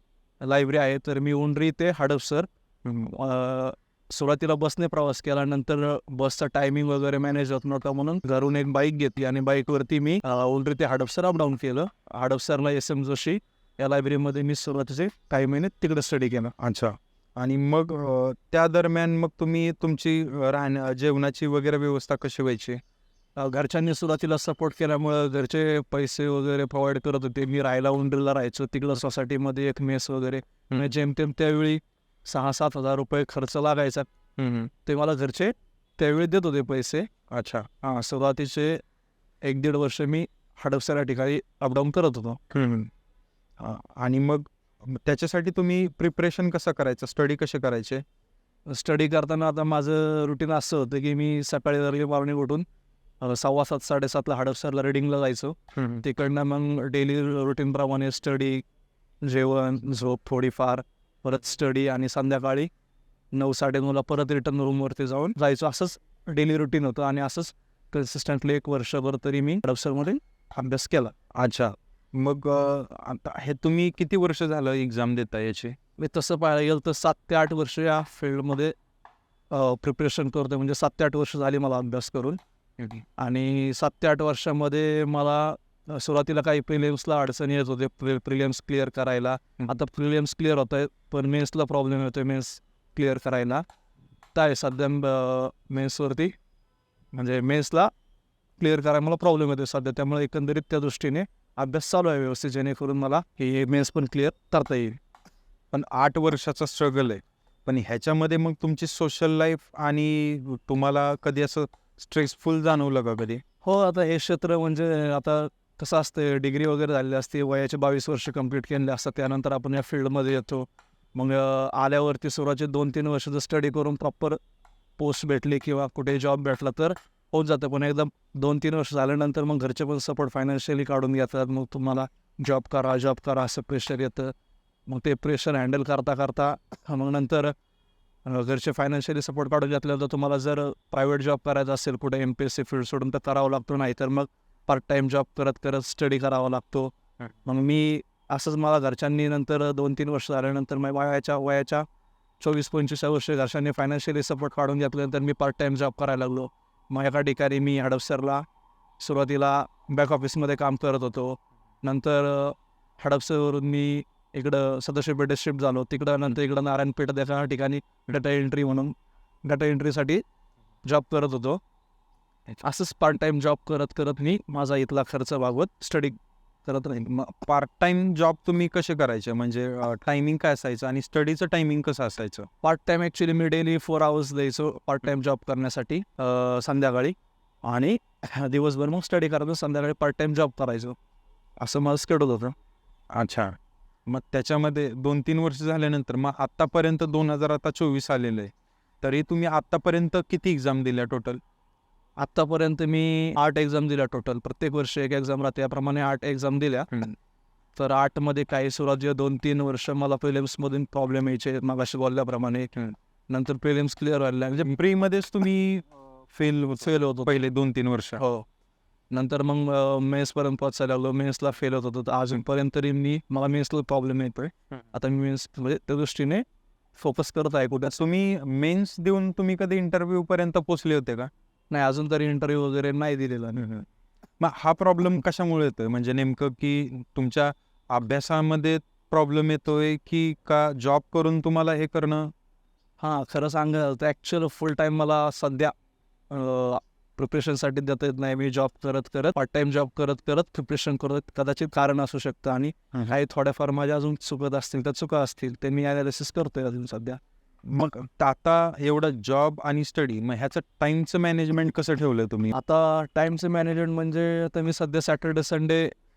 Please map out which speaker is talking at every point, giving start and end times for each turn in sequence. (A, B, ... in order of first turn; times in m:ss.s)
0:00.4-0:16.5 A
0:16.6-0:22.8 B
0:23.4-0:34.1 A
0:34.4-0:34.7 B
0:34.8-0:37.1 A
0:37.3-0:37.7 B
0:37.8-0:38.8 A
0:39.4-0:42.4 A
0:42.5-0:42.9 B
0:43.6-0:48.0 B
0:48.7-0:52.6 A
0:53.2-0:58.6 A
0:55.8-0:56.0 B
0:59.2-1:02.7 A
1:03.3-1:11.1 A
1:11.4-1:15.8 B
1:16.0-1:18.7 A
1:19.5-1:22.4 A
1:23.2-1:33.6 A
1:34.3-1:36.4 A
1:37.1-1:37.9 A
1:38.6-1:45.0 A
1:45.7-1:53.4 B
1:53.6-2:04.4 A
2:05.0-2:14.3 A
2:14.9-2:17.5 A
2:18.3-2:26.9 A
2:27.5-2:31.9 A
2:32.4-2:38.4 A
2:39.0-2:50.2 A
2:50.8-2:51.6 A
2:52.6-2:57.1 A
2:57.1-3:02.5 B
3:02.6-3:11.0 A
3:11.6-3:12.5 A
3:13.1-3:13.6 B
3:14.1-3:21.4 B
3:22.2-3:27.0 A
3:27.8-3:34.7 A
3:34.6-3:38.2 B
3:36.8-3:37.3 A
3:38.2-3:38.5 A
3:39.1-3:46.4 A
3:47.0-3:48.0 A
3:47.9-3:51.3 B
3:51.7-3:53.7 A
3:53.6-3:53.8 B
3:54.4-4:02.3 B
4:03.0-4:05.7 A
4:06.3-4:17.2 A
4:17.6-4:22.5 B
4:22.5-4:25.9 A